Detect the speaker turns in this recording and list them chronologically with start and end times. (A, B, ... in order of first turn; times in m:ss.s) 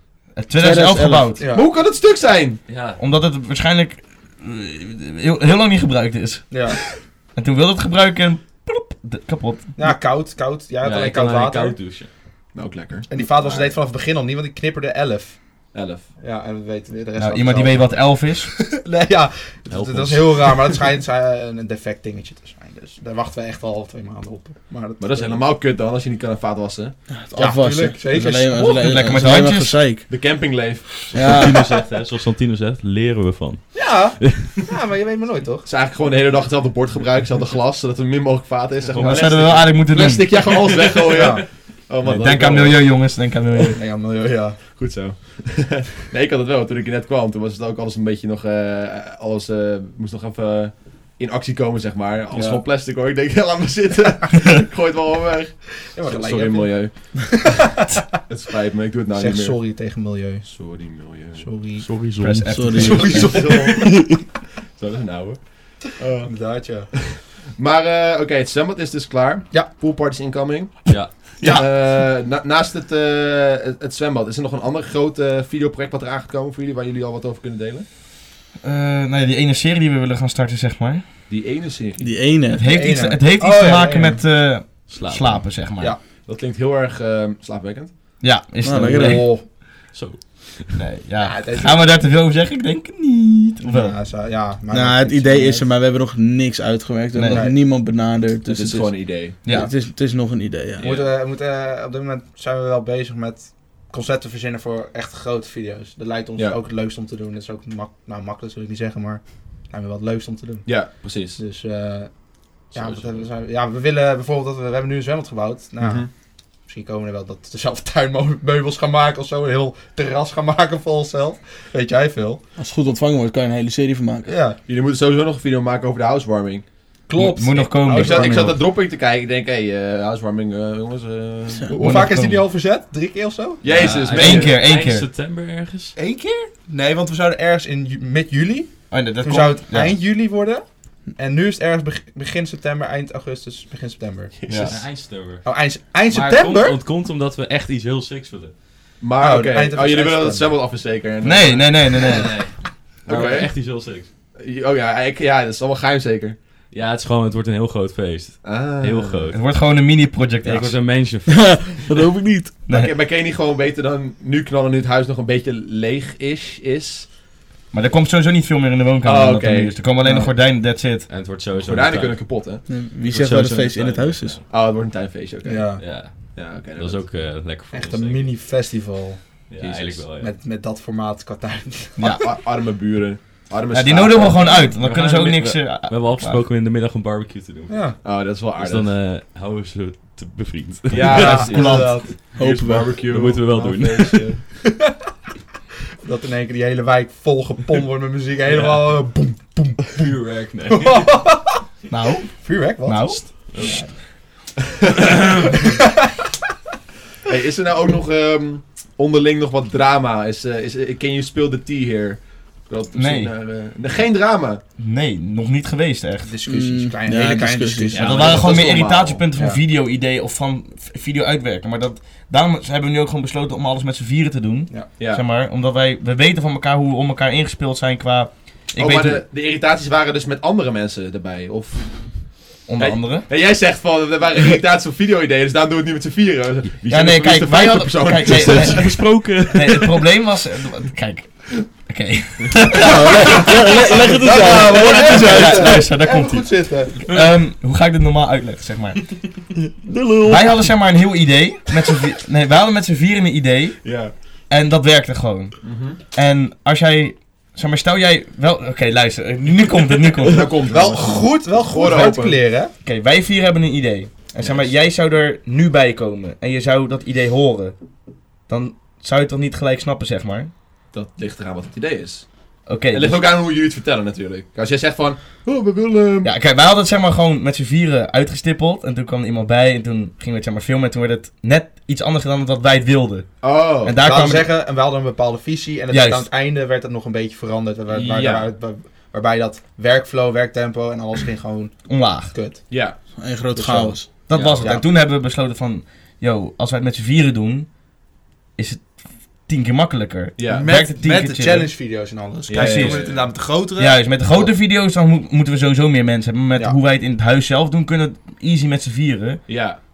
0:00.3-0:01.4 A
0:00.6-0:01.3 B
0:01.4-0:01.7 C
0:01.4-0:02.6 D
0:02.7-0:03.0 E
0:03.0-0:09.9 A
0:06.5-0:06.8 C
0:09.7-0:11.8 C
0:10.8-0:12.1 E
0:12.5-0:13.8 D
0:13.1-0:15.4 C
0:15.7-0:16.1 D
0:16.2-0:25.4 C
0:17.2-0:18.5 A
0:19.7-0:20.7 E
0:25.0-0:27.0 D
0:27.1-0:30.1 B
0:27.3-0:29.1 C
0:28.5-0:29.9 A
0:30.1-0:31.5 D
0:31.1-0:34.5 E
0:31.1-0:31.6 B
0:33.7-0:35.7 C
0:35.6-0:43.0 D
0:38.9-0:40.5 A
0:39.0-0:39.6 C
0:40.4-0:41.3 E
0:41.1-0:41.4 C
0:42.0-0:43.8 A
0:43.7-0:44.6 C
0:44.7-0:57.6 D
0:52.3-0:52.6 C
0:55.9-0:57.5 C
0:58.2-0:59.6 D
0:59.1-1:00.6 C
1:00.4-1:01.5 D
1:01.3-1:02.0 C
1:01.8-1:03.7 E
1:02.1-1:03.5 A
1:02.5-1:03.9 B
1:02.8-1:17.8 D
1:03.0-1:03.7 C
1:06.2-1:06.9 C
1:10.9-1:11.4 E
1:11.4-1:11.7 C
1:18.6-1:21.1 A
1:21.3-1:22.2 D
1:22.0-1:22.8 B
1:22.5-1:26.0 A
1:22.6-1:24.2 C
1:24.9-1:25.6 E
1:26.2-1:27.9 D
1:28.2-1:29.3 A
1:28.6-1:29.3 B
1:28.8-1:29.4 C
1:29.4-1:30.8 E
1:30.8-1:34.0 A
1:31.2-1:31.8 C
1:33.6-1:35.7 C
1:34.7-1:40.8 B
1:37.1-1:37.4 A
1:37.3-1:37.6 C
1:38.4-1:39.4 D
1:39.4-1:39.7 A
1:40.8-1:41.1 D
1:40.8-1:50.7 C
1:50.6-1:51.4 D
1:51.4-1:52.1 C
1:52.6-1:56.1 C
1:52.7-1:53.3 E
1:55.8-1:56.1 D
1:56.6-2:02.4 C
2:02.6-2:04.3 B
2:04.2-2:04.6 C
2:04.6-2:06.6 D
2:07.1-2:08.6 C
2:07.1-2:08.6 A
2:07.8-2:12.1 D
2:11.7-2:13.6 C
2:11.8-2:12.4 A
2:13.6-2:14.6 D
2:13.6-2:16.0 E
2:14.0-2:15.1 A
2:16.0-2:24.4 C
2:18.9-2:20.0 A
2:24.4-2:24.9 D
2:24.5-2:24.8 A
2:24.6-2:28.6 E
2:25.4-2:26.8 C
2:29.0-2:32.2 D
2:29.2-2:30.6 C
2:31.2-2:32.4 A
2:31.9-2:34.1 E
2:33.0-2:33.7 D
2:34.4-2:36.4 D
2:36.7-2:39.7 E
2:38.4-2:39.3 D
2:39.3-2:40.9 A
2:40.4-2:42.0 E
2:41.3-2:42.6 B
2:42.7-2:42.9 A
2:42.7-2:47.1 D
2:47.7-2:51.1 A
2:49.0-2:49.7 D
2:50.0-2:50.3 C
2:51.1-2:54.4 E
2:51.6-2:52.6 D
2:52.7-2:54.4 B
2:54.5-2:57.0 D
2:55.4-2:55.8 C
2:55.8-2:58.3 E
2:57.7-2:59.2 C
2:59.5-3:00.3 E
2:59.6-3:00.0 D
3:00.2-3:02.1 C
3:02.0-3:02.2 A
3:02.0-3:04.6 D
3:03.7-3:06.4 A
3:04.5-3:11.9 E
3:07.7-3:08.0 C
3:08.0-3:08.9 D
3:10.9-3:14.4 D
3:11.0-3:12.1 C
3:11.2-3:11.8 A
3:12.3-3:12.9 B
3:13.0-3:14.4 E
3:16.0-3:20.0 C
3:18.5-3:19.1 E
3:19.9-3:21.3 E
3:20.7-3:21.6 C
3:21.9-3:23.5 A
3:22.2-3:23.9 C
3:23.5-3:24.0 E
3:27.2-3:34.6 D
3:32.9-3:33.3 A
3:34.8-3:36.4 A
3:36.2-3:38.6 C
3:36.5-3:38.1 B
3:37.9-3:39.2 D
3:37.9-3:49.2 A
3:39.3-3:39.6 C
3:44.7-3:45.0 C
3:45.0-3:45.2 D
3:48.8-3:59.0 D
3:52.6-3:53.3 A
3:56.9-4:09.4 A
3:58.1-4:00.0 E
4:02.8-4:05.8 B
4:03.9-4:07.1 C
4:09.8-4:10.7 B
4:10.2-4:20.5 A
4:13.8-4:14.1 D
4:15.6-4:16.0 D
4:20.2-4:22.4 D
4:20.7-4:22.7 C
4:22.8-4:27.8 A
4:24.4-4:24.7 D
4:28.4-4:30.5 A
4:30.9-4:36.3 D
4:32.6-4:33.2 A
4:36.2-4:44.5 A
4:43.4-4:44.0 D
4:44.0-4:52.7 C
4:45.9-4:46.3 A
4:47.9-4:48.5 D
4:51.9-4:52.3 A
4:52.7-4:53.0 D
4:53.2-4:54.1 B
4:53.5-4:54.9 C
4:54.1-4:57.7 A
4:54.3-4:54.6 E
4:58.5-5:01.7 A
5:00.4-5:00.7 D
5:00.4-5:04.5 C
5:02.5-5:03.3 D
5:02.5-5:03.0 A
5:03.8-5:09.6 A
5:09.5-5:09.8 D